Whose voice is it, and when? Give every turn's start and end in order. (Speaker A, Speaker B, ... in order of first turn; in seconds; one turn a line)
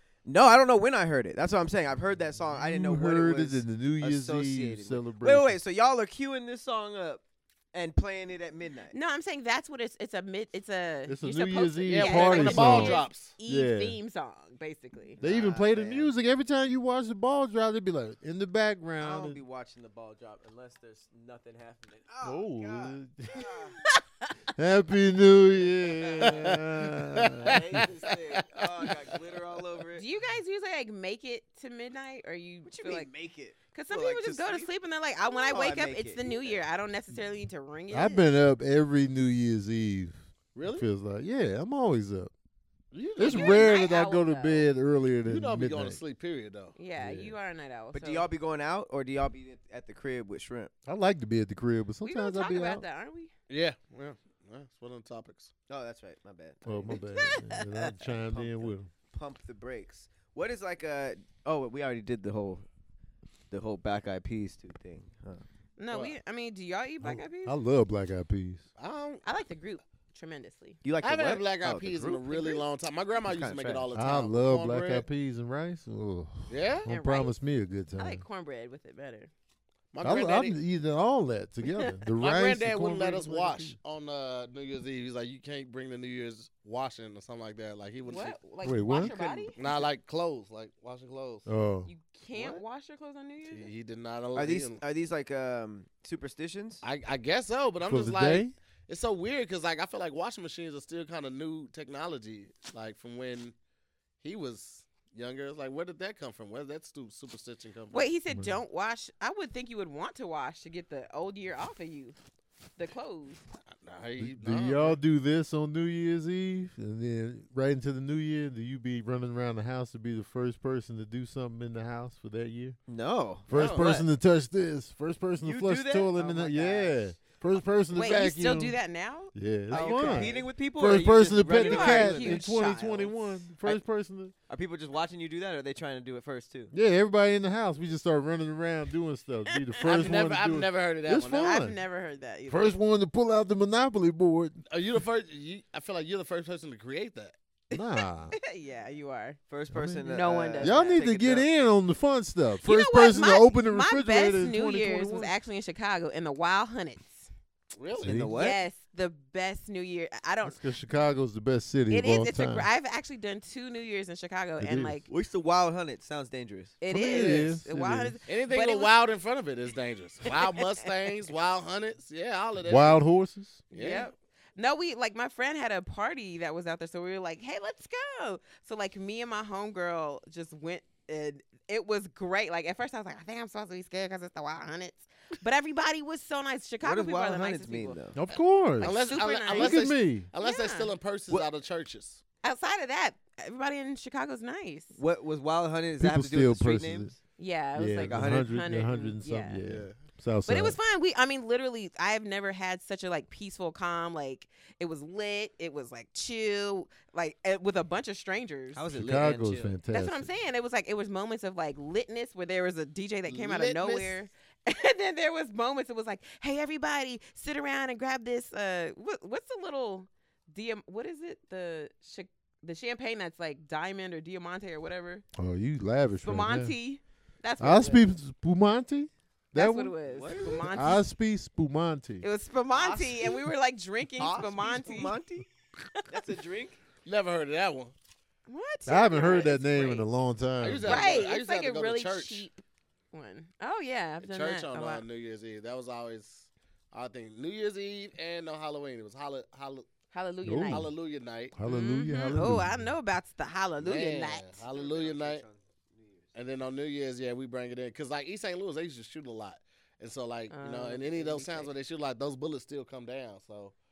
Speaker A: 0.2-8.9
Speaker B: 2.5-5.5
Speaker C: 8.9-15.2
Speaker B: 11.1-14.0
Speaker D: 11.9-13.3
Speaker A: 15.2-16.1
Speaker B: 15.2-19.4
Speaker A: 19.0-23.8
Speaker B: 22.2-23.6
Speaker B: 24.5-27.9
Speaker A: 25.8-26.6
Speaker D: 26.2-26.6
Speaker D: 27.2-27.6
Speaker A: 27.3-30.0
Speaker D: 28.3-29.2
Speaker C: 29.9-33.1
Speaker A: 32.7-34.7
Speaker C: 33.7-38.3
Speaker A: 35.2-36.6
Speaker B: 37.9-42.3
Speaker D: 40.5-40.9
Speaker D: 42.9-43.8
Speaker B: 43.1-46.0
Speaker C: 43.2-44.7
Speaker D: 45.3-46.8
Speaker C: 46.8-48.3
Speaker B: 47.0-47.3
Speaker A: 47.9-50.7
Speaker B: 50.9-52.8
Speaker C: 52.0-53.3
Speaker D: 53.5-55.5
Speaker A: 55.7-62.6
Speaker B: 56.7-58.9
Speaker C: 56.9-57.4
Speaker A: 63.5-65.4
Speaker C: 65.8-67.5
Speaker D: 65.9-66.2
Speaker B: 67.0-68.7
Speaker D: 68.8-69.2
Speaker C: 69.2-70.8
Speaker A: 70.8-72.5
Speaker D: 71.0-75.0
Speaker A: 73.2-73.9
Speaker B: 73.9-78.2
Speaker D: 76.5-76.9
Speaker C: 76.9-77.3
Speaker C: 78.0-79.3
Speaker D: 79.9-80.5
Speaker B: 80.0-83.8
Speaker D: 82.2-88.4
Speaker C: 88.0-89.5
Speaker B: 88.6-89.1
Speaker A: 88.9-89.8
Speaker D: 89.5-91.5
Speaker B: 91.5-91.9
Speaker C: 91.8-93.7
Speaker A: 92.3-92.6
Speaker D: 93.5-94.8
Speaker A: 94.3-96.8
Speaker D: 96.8-103.5
Speaker B: 97.8-98.5
Speaker D: 104.2-108.1
Speaker C: 107.9-112.2
Speaker B: 108.3-108.6
Speaker C: 112.8-113.4
Speaker D: 113.7-115.0
Speaker B: 114.2-122.8
Speaker A: 122.9-124.1
Speaker B: 123.5-128.8
Speaker D: 123.5-123.9
Speaker A: 125.4-127.0
Speaker C: 127.9-130.4
Speaker B: 129.3-134.3
Speaker A: 129.7-132.5
Speaker C: 131.6-133.1
Speaker A: 134.5-136.7
Speaker B: 136.7-141.8
Speaker C: 139.5-140.2
Speaker D: 139.8-141.5
Speaker C: 141.4-142.8
Speaker B: 142.5-144.6
Speaker D: 144.7-147.3
Speaker C: 147.7-149.4
Speaker B: 147.7-148.3
Speaker A: 149.5-151.5
Speaker B: 149.7-155.3
Speaker C: 150.0-150.9
Speaker C: 152.6-157.3
Speaker D: 157.8-158.1
Speaker A: 157.9-158.6
Speaker B: 158.0-158.3
Speaker C: 158.3-160.6
Speaker B: 160.4-162.7
Speaker C: 161.9-165.1
Speaker B: 164.6-165.0
Speaker A: 165.1-166.8
Speaker C: 166.8-168.9
Speaker B: 166.9-168.2
Speaker D: 168.3-173.0
Speaker B: 172.6-173.6
Speaker D: 173.7-174.1
Speaker C: 173.7-189.8
Speaker A: 186.8-188.2
Speaker B: 188.1-188.9
Speaker D: 188.8-192.2
Speaker B: 189.5-190.3
Speaker C: 190.4-190.9
Speaker C: 192.4-195.0
Speaker A: 194.9-197.1
Speaker B: 196.0-197.2
Speaker C: 197.4-199.6
Speaker B: 197.8-200.8
Speaker A: 198.0-198.5
Speaker A: 199.6-199.9
Speaker C: 200.5-208.8
Speaker A: 208.8-209.8
Speaker B: 208.9-210.3
Speaker C: 209.9-225.2
Speaker D: 213.3-214.2
Speaker B: 225.4-226.7
Speaker C: 226.2-228.0
Speaker B: 227.6-229.9
Speaker C: 229.5-231.0
Speaker A: 230.1-230.8
Speaker B: 230.5-232.2
Speaker C: 232.2-235.1
Speaker A: 232.7-233.4
Speaker A: 234.2-235.5
Speaker A: 236.1-236.8
Speaker D: 237.1-237.9
Speaker C: 238.5-240.1
Speaker B: 238.9-241.2
Speaker D: 239.2-239.5
Speaker D: 240.6-242.4
Speaker C: 240.8-242.6
Speaker C: 243.1-245.0
Speaker D: 244.2-249.9
Speaker C: 250.1-250.9
Speaker B: 250.4-250.9
Speaker D: 250.7-251.6
Speaker B: 251.5-252.9
Speaker C: 251.7-254.6
Speaker D: 253.8-255.4
Speaker A: 254.7-256.3
Speaker D: 256.3-263.7
Speaker C: 260.5-261.7